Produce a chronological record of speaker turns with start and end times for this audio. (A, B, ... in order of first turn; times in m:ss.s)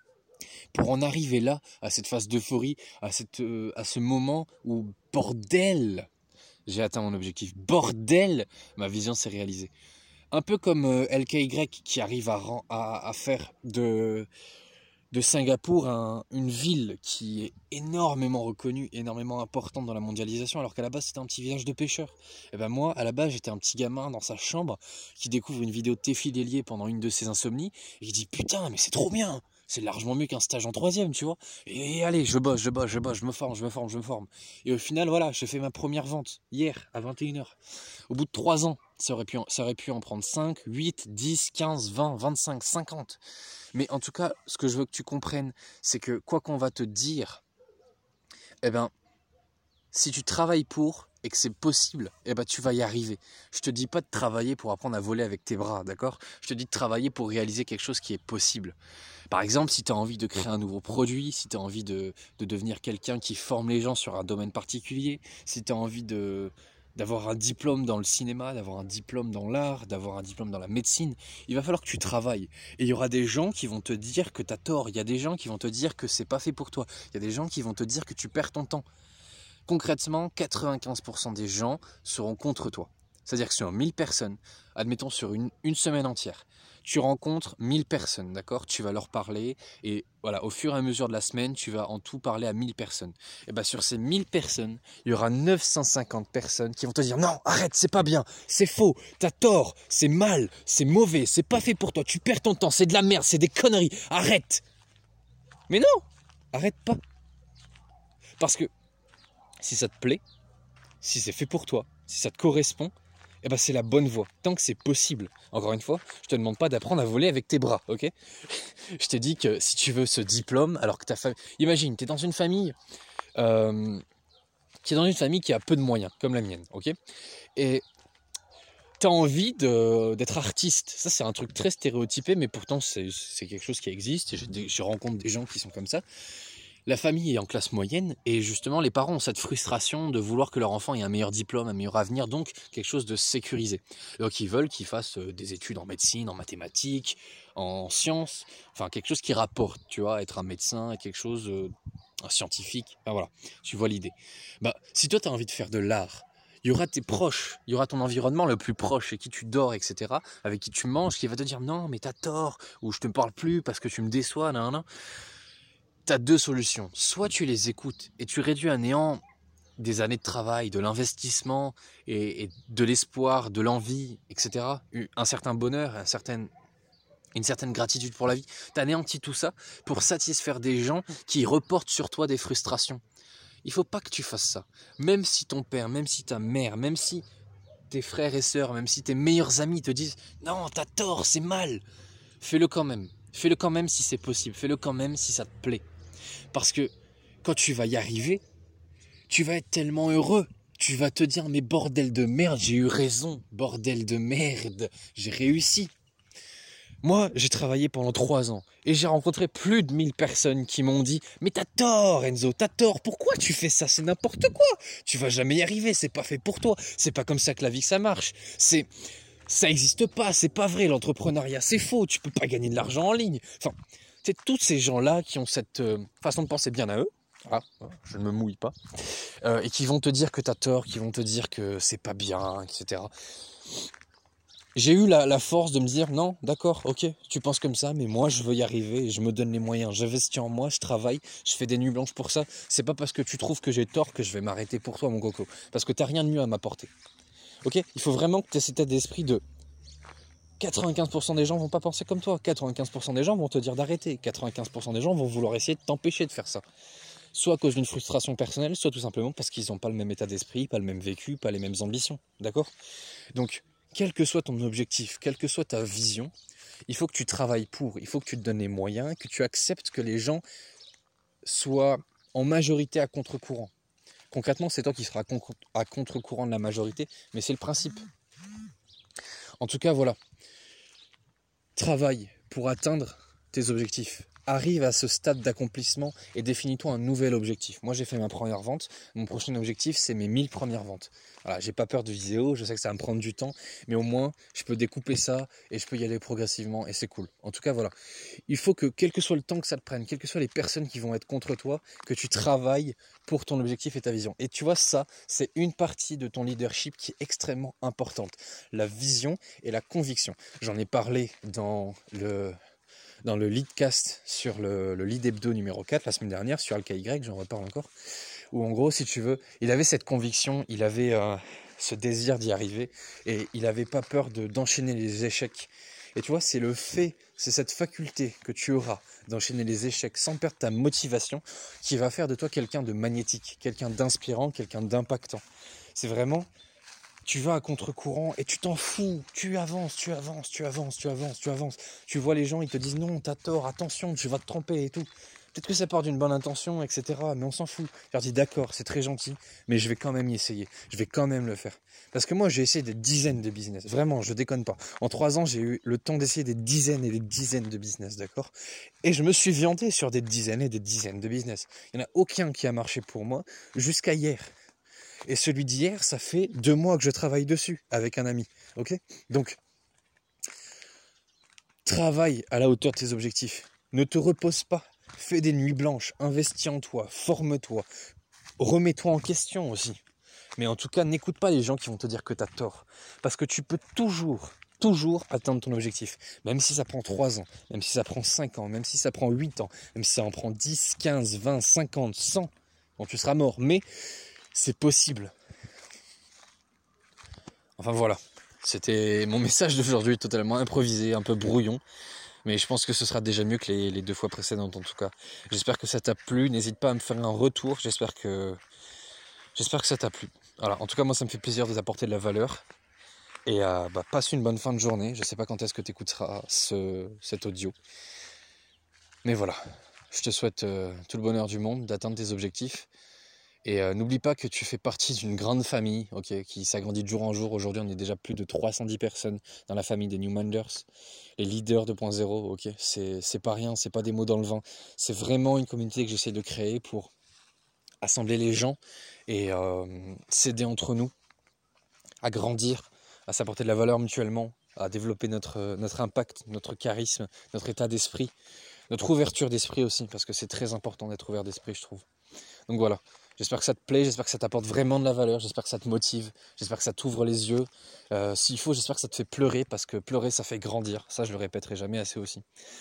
0:00.7-0:06.1 A
0:06.7-0:09.7 A
0:10.3-0:14.3 A
0:15.1-0:37.6 A
0:38.1-0:43.2 A
0:43.7-0:47.4 A
0:48.6-0:48.9 A
0:49.9-0:58.8 A
0:59.3-1:18.9 A
1:19.7-1:44.6 A
1:45.7-1:47.0 A
1:48.4-1:48.7 A
1:49.6-1:50.2 A
1:51.0-2:02.8 A
2:03.4-2:04.0 A
2:04.8-2:07.0 A
2:07.6-2:07.8 A
2:09.0-2:16.0 A
2:16.9-2:31.7 A
2:32.3-2:44.9 A
2:46.1-2:49.2 A
2:49.8-2:56.5 A
2:57.4-3:03.0 A
3:03.6-3:07.2 A
3:07.9-3:11.8 A
3:12.4-3:15.8 A
3:16.5-3:16.9 A
3:17.4-3:18.4 A
3:19.3-3:25.9 A
3:27.0-3:38.9 A
3:39.5-3:48.8 A
3:49.4-3:53.1 A
3:54.8-4:06.9 A
4:07.6-4:09.4 A
4:10.6-4:16.6 A
4:17.3-4:22.7 A
4:23.3-4:26.3 A
4:26.9-4:30.4 A
4:31.4-4:33.7 A
4:34.3-4:38.0 A
4:39.6-4:40.2 A
4:41.8-4:57.9 A
4:58.5-5:12.6 A
5:13.2-5:17.9 A
5:18.5-5:35.4 A
5:35.9-5:36.5 A
5:37.2-5:58.5 A
5:59.0-6:04.5 A
6:05.3-6:09.6 A
6:11.8-6:17.9 A
6:18.6-6:20.0 A
6:20.6-6:33.8 A
6:34.5-6:35.4 A
6:37.8-6:41.8 A
6:42.4-6:48.6 A
6:49.6-6:52.6 A
6:53.5-6:57.8 A
6:59.2-7:02.9 A
7:03.6-7:10.9 A
7:11.4-7:17.1 A
7:18.0-7:21.1 A
7:22.2-7:28.3 A
7:28.9-7:32.0 A
7:32.7-7:42.4 A